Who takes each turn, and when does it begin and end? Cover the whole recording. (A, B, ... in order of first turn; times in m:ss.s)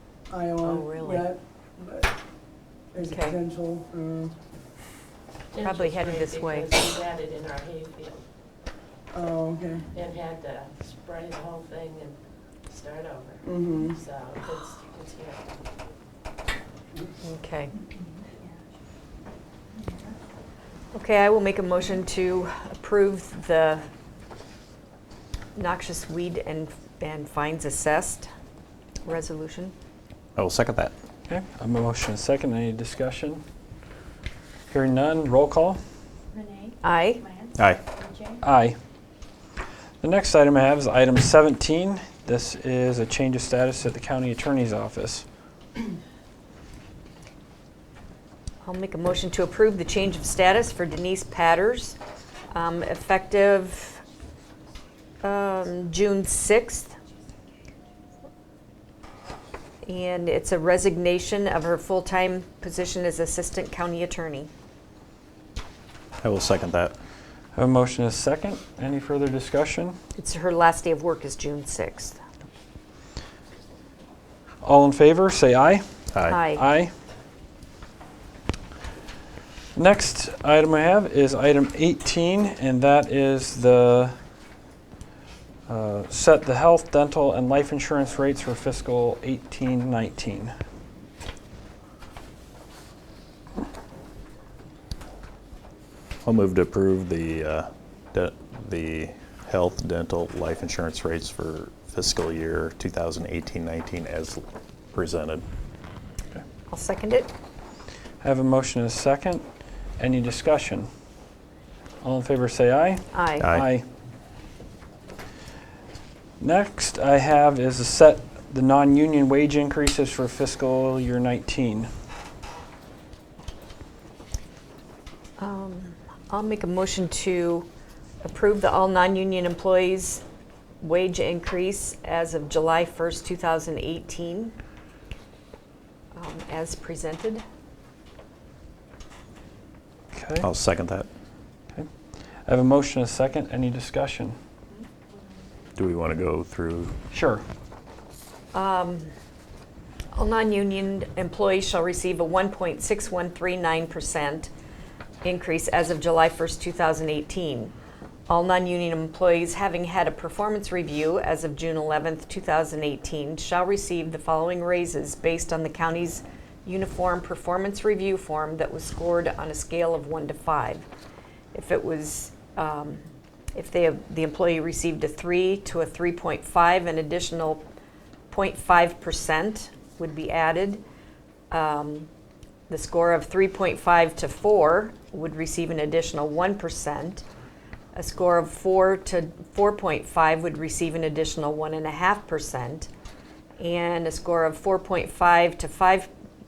0:00.3-0:02.1 A
0:00.6-0:01.3 B
0:02.9-0:04.3 A
0:03.0-0:03.4 B
0:05.5-0:08.2 C
0:05.6-0:06.9 B
0:09.1-0:09.8 A
0:09.9-0:15.5 C
0:13.4-0:14.0 A
0:17.2-0:17.7 B
0:20.9-0:23.8 B
0:25.5-0:28.3 B
0:29.0-0:29.7 B
0:30.4-0:30.9 D
0:31.3-0:33.4 E
0:34.7-0:35.8 E
0:36.8-0:37.3 B
0:37.6-0:37.8 D
0:38.4-0:38.8 E
0:40.0-0:45.2 E
0:48.6-0:52.0 B
0:52.5-0:54.0 B
0:55.2-0:57.0 B
0:59.8-1:04.5 B
1:06.2-1:06.9 D
1:07.5-1:10.0 E
1:10.2-1:12.2 B
1:14.6-1:15.8 E
1:16.1-1:16.4 D
1:16.3-1:16.7 B
1:16.5-1:16.9 E
1:19.7-1:24.2 E
1:25.7-1:30.5 E
1:36.2-1:45.4 D
1:46.7-1:47.3 B
1:48.2-1:49.4 E
1:50.0-1:50.9 E
1:52.0-1:53.8 E
1:53.1-1:53.5 B
1:53.4-1:53.7 D
1:56.4-2:01.9 E
2:05.4-2:07.7 B
2:08.2-2:10.2 B
2:10.8-2:14.5 B
2:16.1-2:17.4 B
2:20.1-2:20.5 E
2:20.4-2:21.1 D
2:22.4-2:24.4 E
2:25.8-2:26.9 D
2:27.1-2:27.4 E
2:28.5-2:29.1 B
2:30.1-2:34.5 B
2:35.2-2:37.7 B
2:38.3-2:50.8 B
2:51.5-2:53.0 B
2:53.5-2:57.6 B
2:58.3-3:00.8 B
3:01.5-3:02.1 B
3:02.7-3:07.2 B
3:07.9-3:12.9 B
3:13.6-3:16.1 B